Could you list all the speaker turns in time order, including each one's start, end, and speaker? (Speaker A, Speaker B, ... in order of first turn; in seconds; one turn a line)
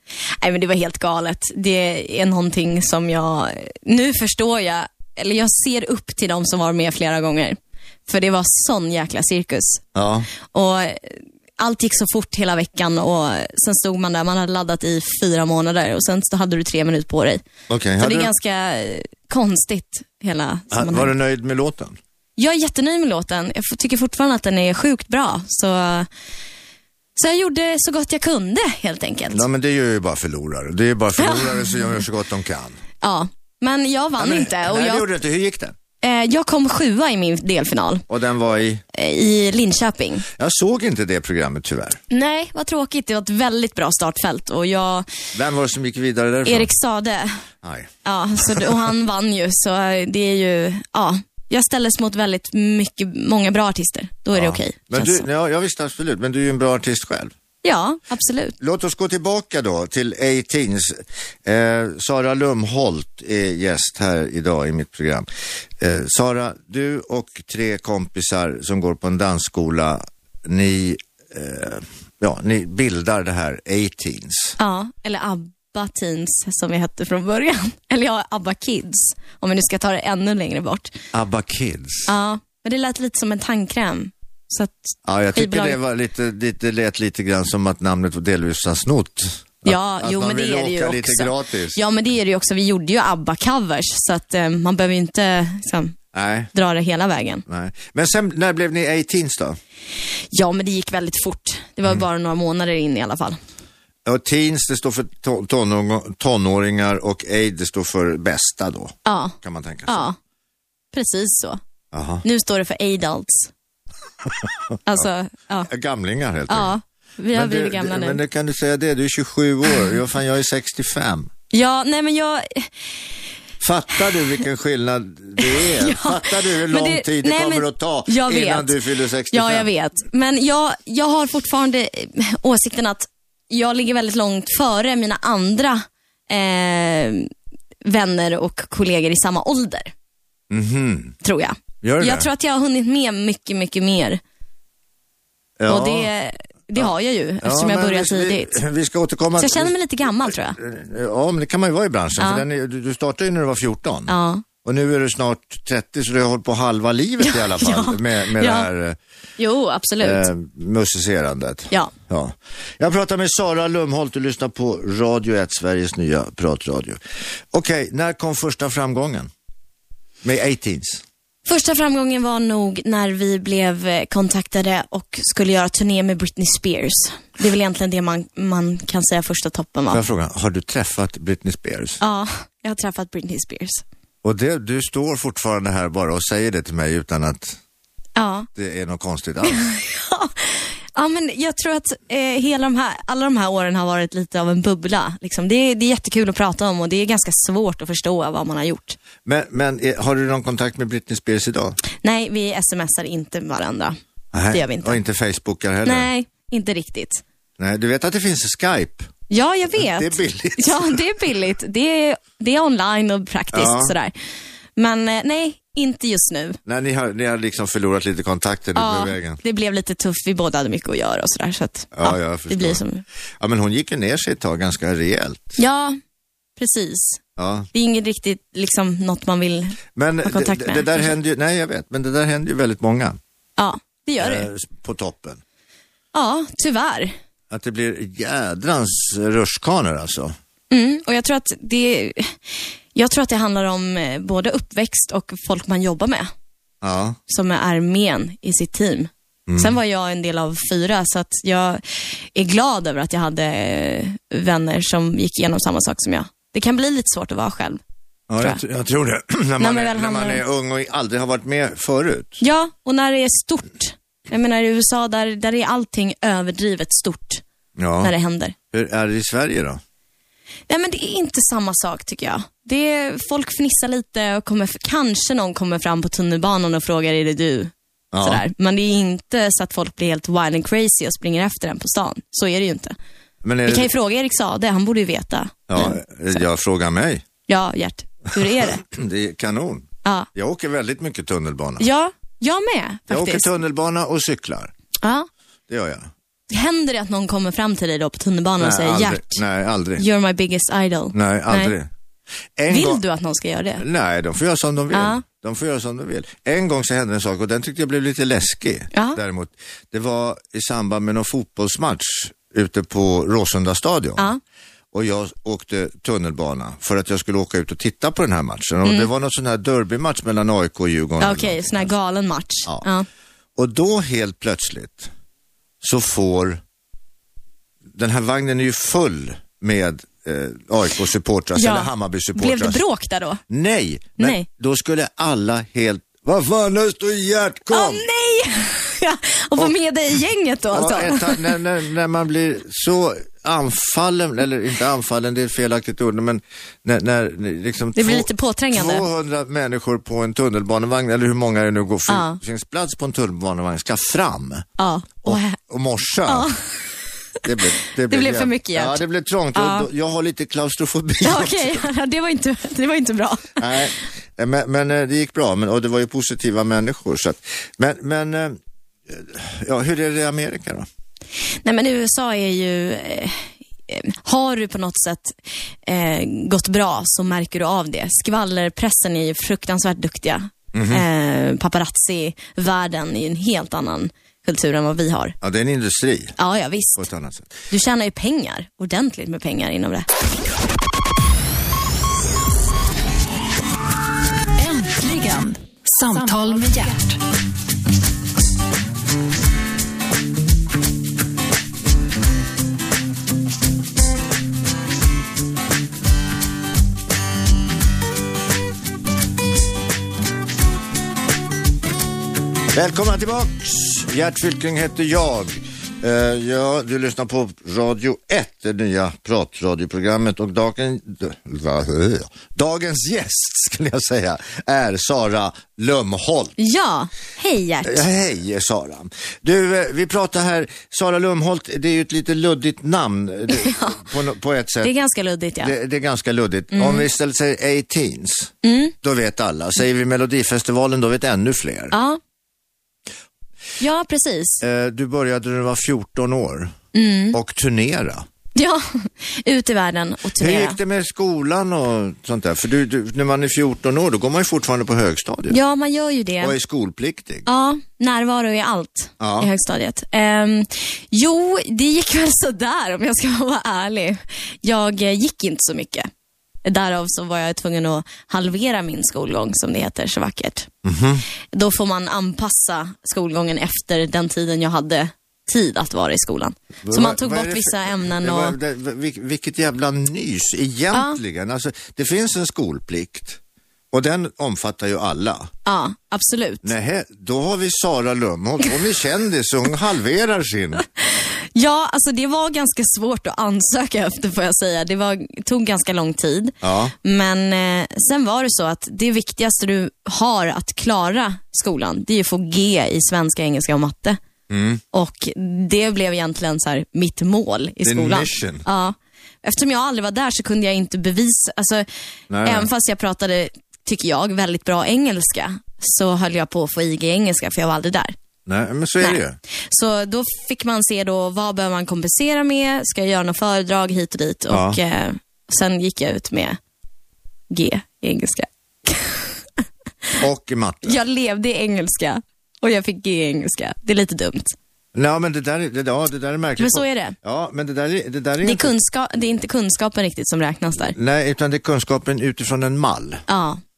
Speaker A: 0.4-9.8
Speaker B: 9.9-10.3
Speaker A: 10.4-17.4
Speaker B: 17.7-18.3
Speaker A: 18.0-21.1
Speaker B: 20.7-22.0
Speaker A: 22.4-26.1
Speaker A: 27.1-29.4
Speaker B: 29.3-32.8
Speaker A: 31.2-31.8
Speaker A: 33.0-35.0
Speaker B: 34.2-35.8
Speaker A: 36.0-38.0
Speaker B: 38.1-38.8
Speaker A: 38.9-40.2
Speaker B: 40.4-42.0
Speaker A: 42.1-45.1
Speaker B: 45.3-46.7
Speaker A: 46.5-47.5
Speaker B: 47.6-47.9
Speaker A: 48.0-55.2
Speaker B: 48.4-48.7
Speaker B: 54.3-57.3
Speaker A: 57.6-58.5
Speaker B: 58.6-65.2
Speaker B: 65.8-74.5
Speaker A: 74.6-81.0
Speaker B: 81.1-82.1
Speaker A: 82.0-85.8
Speaker B: 85.0-91.8
Speaker A: 89.6-96.0
Speaker B: 96.1-96.5
Speaker A: 96.5-97.4
Speaker B: 97.5-99.6
Speaker A: 100.3-103.4
Speaker B: 104.0-110.1
Speaker A: 109.0-109.3
Speaker A: 109.9-110.2
Speaker A: 110.9-111.6
Speaker B: 111.9-112.2
Speaker A: 112.2-113.5
Speaker B: 114.4-115.0
Speaker A: 114.8-115.7
Speaker B: 115.7-116.7
Speaker A: 116.5-118.2
Speaker B: 117.3-121.3
Speaker A: 121.5-122.7
Speaker B: 123.6-129.7
Speaker A: 125.4-128.8
Speaker A: 129.3-137.3
Speaker A: 137.8-139.9
Speaker B: 140.5-141.1
Speaker A: 141.2-144.2
Speaker B: 141.8-142.3
Speaker B: 145.6-146.1
Speaker A: 145.7-148.6
Speaker B: 147.4-149.7
Speaker A: 149.4-150.6
Speaker B: 150.3-159.0
Speaker A: 152.2-152.4
Speaker A: 154.1-154.4
Speaker A: 157.2-158.7
Speaker A: 159.4-160.3
Speaker B: 160.0-167.0
Speaker B: 167.5-169.3
Speaker B: 170.2-171.0
Speaker A: 171.4-180.0
Speaker B: 179.9-182.0
Speaker A: 182.0-183.8
Speaker B: 184.2-187.6
Speaker A: 188.2-188.5
Speaker B: 188.5-189.6
Speaker A: 189.4-199.0
Speaker B: 199.2-201.8
Speaker A: 202.0-203.9
Speaker B: 204.3-206.1
Speaker A: 204.5-205.0
Speaker A: 205.8-207.2
Speaker B: 207.6-209.1
Speaker A: 209.3-214.1
Speaker B: 209.8-211.0
Speaker B: 213.5-213.9
Speaker A: 214.8-216.6
Speaker B: 216.7-219.4
Speaker A: 218.8-223.0
Speaker B: 221.9-222.8
Speaker B: 223.4-225.6
Speaker A: 225.6-226.0
Speaker A: 226.6-227.2
Speaker B: 227.4-227.7
Speaker A: 227.7-231.1
Speaker B: 229.9-233.2
Speaker A: 233.6-234.5
Speaker B: 234.2-235.4
Speaker A: 236.1-237.1
Speaker B: 237.5-240.3
Speaker A: 240.7-242.4
Speaker A: 242.9-246.3
Speaker B: 246.8-247.2
Speaker A: 247.3-257.8
Speaker B: 249.5-249.7
Speaker B: 258.3-262.4
Speaker A: 259.6-260.4
Speaker A: 262.4-267.4
Speaker B: 267.8-268.1
Speaker A: 268.0-268.5
Speaker B: 268.7-269.8
Speaker A: 270.7-282.9
Speaker B: 278.1-278.4
Speaker B: 283.4-283.9
Speaker A: 283.6-286.4
Speaker B: 285.7-287.2
Speaker A: 287.5-288.8
Speaker B: 288.6-291.9
Speaker A: 291.8-293.5
Speaker B: 293.1-294.7
Speaker A: 295.0-295.3
Speaker B: 295.7-296.1
Speaker A: 296.5-299.4
Speaker B: 298.6-300.0
Speaker A: 300.0-301.7
Speaker B: 301.1-301.9
Speaker B: 302.6-303.0
Speaker A: 302.7-303.8
Speaker B: 303.8-314.2
Speaker A: 304.9-305.2
Speaker A: 308.9-309.2
Speaker B: 314.9-321.9
Speaker A: 318.8-319.1
Speaker A: 321.2-323.1
Speaker B: 323.6-325.1
Speaker B: 325.8-326.6
Speaker B: 327.9-332.8
Speaker A: 331.5-333.4
Speaker B: 333.5-338.0
Speaker A: 334.2-334.5
Speaker A: 337.7-341.5
Speaker B: 340.7-354.6
Speaker A: 347.9-349.1
Speaker A: 352.1-352.4
Speaker A: 354.8-355.6
Speaker B: 355.2-356.5
Speaker A: 356.3-356.6
Speaker B: 357.4-361.8
Speaker A: 358.1-359.0
Speaker A: 359.5-359.9
Speaker A: 361.2-363.8
Speaker B: 363.6-370.9
Speaker A: 371.6-385.4
Speaker B: 380.7-381.0
Speaker B: 385.4-386.4
Speaker A: 386.4-387.1
Speaker B: 387.0-387.5
Speaker A: 387.7-390.1
Speaker C: 394.6-397.2
Speaker B: 412.7-426.5
Speaker A: 426.6-428.0
Speaker B: 427.8-434.9
Speaker A: 433.5-434.0
Speaker A: 434.8-435.7
Speaker B: 435.6-441.9
Speaker A: 436.7-437.1
Speaker A: 438.6-438.9
Speaker A: 441.9-442.2
Speaker A: 443.8-444.6
Speaker B: 444.6-446.7
Speaker A: 446.9-447.4
Speaker B: 447.3-448.2
Speaker A: 448.5-450.8
Speaker B: 450.4-455.6
Speaker A: 455.5-456.5
Speaker B: 456.4-457.5
Speaker A: 457.4-466.1
Speaker B: 459.2-459.5
Speaker A: 466.6-470.7
Speaker B: 470.8-471.2
Speaker A: 471.5-478.6
Speaker B: 476.8-483.4
Speaker A: 480.9-481.2
Speaker B: 483.9-485.5
Speaker A: 485.6-486.7
Speaker B: 486.6-490.8
Speaker A: 491.0-504.2
Speaker B: 496.6-496.9
Speaker B: 504.5-504.8
Speaker A: 504.9-511.9
Speaker B: 507.8-508.6
Speaker B: 512.3-512.7
Speaker A: 512.4-518.1
Speaker B: 518.5-519.4
Speaker A: 519.0-526.6
Speaker B: 524.5-524.8
Speaker A: 527.5-529.3
Speaker B: 530.2-531.0
Speaker A: 530.8-534.5
Speaker B: 534.9-538.7
Speaker A: 536.6-537.1
Speaker A: 538.4-540.9
Speaker B: 540.8-543.2
Speaker A: 543.3-543.6